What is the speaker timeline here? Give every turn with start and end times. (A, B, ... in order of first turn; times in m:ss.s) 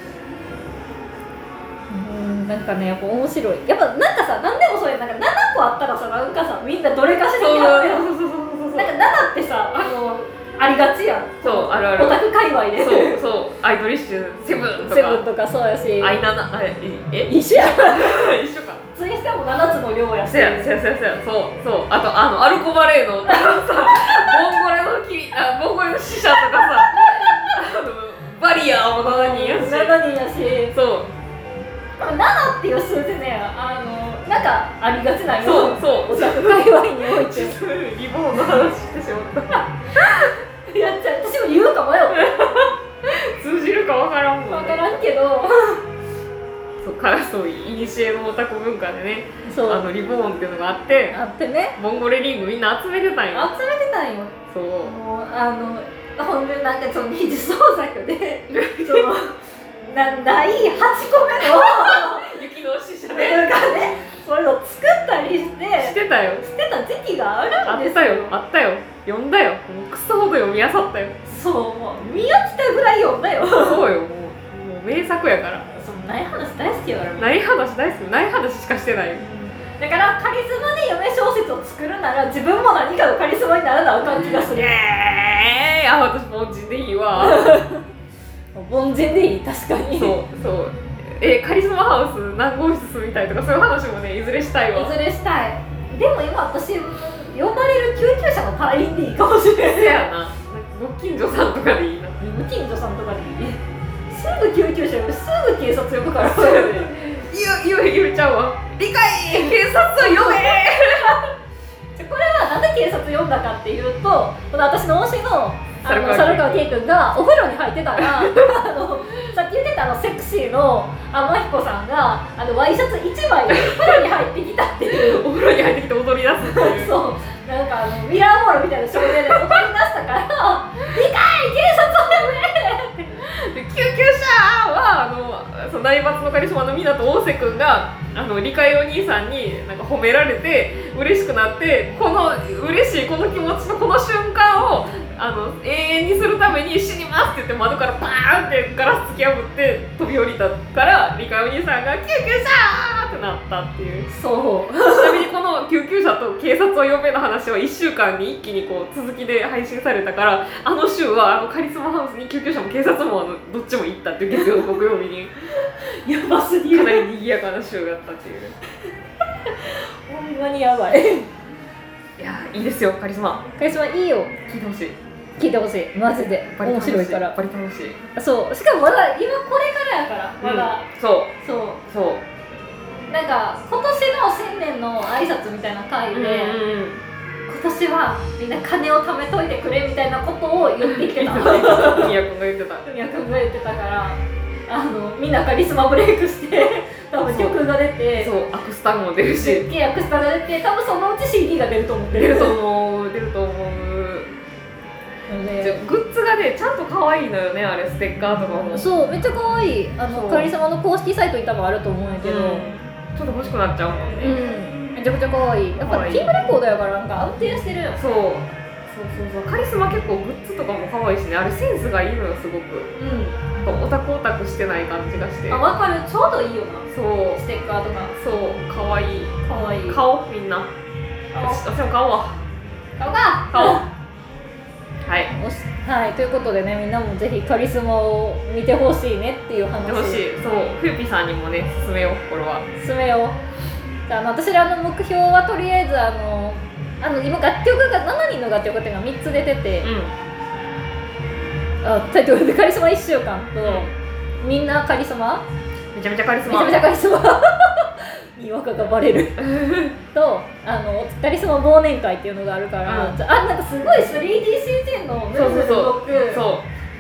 0:01.9-0:08.1 A
0:07.4-0:08.9 B
0:08.7-0:13.2 A
0:11.4-0:12.2 B
0:12.8-0:15.2 B
0:14.8-0:16.2 A
0:16.0-0:18.8 B
0:17.2-0:18.2 A
0:19.0-0:20.8 A
0:20.3-0:30.0 B
0:23.2-0:24.4 A
0:26.4-0:27.6 A
0:29.1-0:30.7 A
0:30.7-0:31.1 B
0:32.0-0:37.6 A
0:35.3-0:39.7 B
0:40.7-0:42.4 A
0:42.1-0:45.0 B
0:44.5-0:45.8 A
0:46.8-0:51.2 B
0:49.5-0:49.8 A
0:51.1-0:51.8 A
0:51.8-0:53.5 B
0:53.3-0:59.3 A
0:54.5-0:55.0 B
0:58.5-0:59.1 B
0:59.9-1:02.3 A
1:01.4-1:03.9 B
1:03.1-1:08.4 A
1:05.8-1:06.5 B
1:07.6-1:11.2 B
1:11.3-1:13.9 A
1:13.5-1:15.6 B
1:15.7-1:17.4 A
1:17.2-1:19.2 B
1:19.2-1:24.8 A
1:24.0-1:27.6 B
1:27.2-1:27.8 A
1:28.6-1:30.2 A
1:29.9-1:34.9 B
1:34.7-1:40.1 A
1:39.7-1:42.2 B
1:42.2-1:47.3 A
1:46.0-1:51.2 B
1:49.2-1:51.3 A
1:52.0-2:05.2 A
1:55.8-1:56.7 B
1:58.0-1:58.6 B
2:03.5-2:04.1 B
2:04.9-2:07.0 B
2:06.5-2:13.2 A
2:09.2-2:09.6 B
2:13.2-2:34.1 B
2:34.1-2:35.3 A
2:34.8-2:45.3 B
2:44.3-2:44.7 A
2:45.9-2:47.1 A
2:46.7-2:48.6 B
2:49.5-2:51.3 A
2:52.2-2:53.4 B
2:53.6-2:54.4 A
2:54.5-2:55.0 B
2:55.4-2:57.4 A
2:56.5-2:58.0 B
2:58.2-3:00.8 A
3:00.4-3:01.3 B
3:01.4-3:01.8 A
3:01.9-3:02.2 B
3:03.1-3:06.6 A
3:06.1-3:07.0 B
3:07.5-3:12.1 A
3:10.8-3:12.8 B
3:12.8-3:18.3 A
3:17.3-3:17.6 B
3:18.2-3:19.7 B
3:19.4-3:22.6 A
3:22.1-3:24.3 B
3:25.3-3:25.8 A
3:25.6-3:28.9 B
3:28.7-3:32.7 A
3:30.1-3:30.5 B
3:32.2-3:34.4 B
3:34.2-3:38.0 A
3:35.8-3:36.3 B
3:38.0-3:42.9 B
3:43.0-3:43.5 A
3:43.6-3:45.6 B
3:45.5-3:48.2 A
3:46.9-3:47.4 B
3:48.2-3:50.7 B
3:49.4-3:50.0 A
3:51.3-3:51.6 A
3:51.4-3:52.4 B
3:53.0-3:53.9 A
3:53.5-3:53.8 B
3:55.1-3:55.3 B
3:55.3-4:00.3 A
3:59.8-4:02.7 B
4:02.8-4:03.4 A
4:04.1-4:09.9 A
4:09.8-4:10.1 B
4:11.8-4:15.4 A
4:13.6-4:13.9 B
4:15.9-4:16.8 B
4:16.4-4:19.4 A
4:19.4-4:20.0 B
4:20.1-4:26.4 A
4:22.9-4:23.2 B
4:25.3-4:26.6 B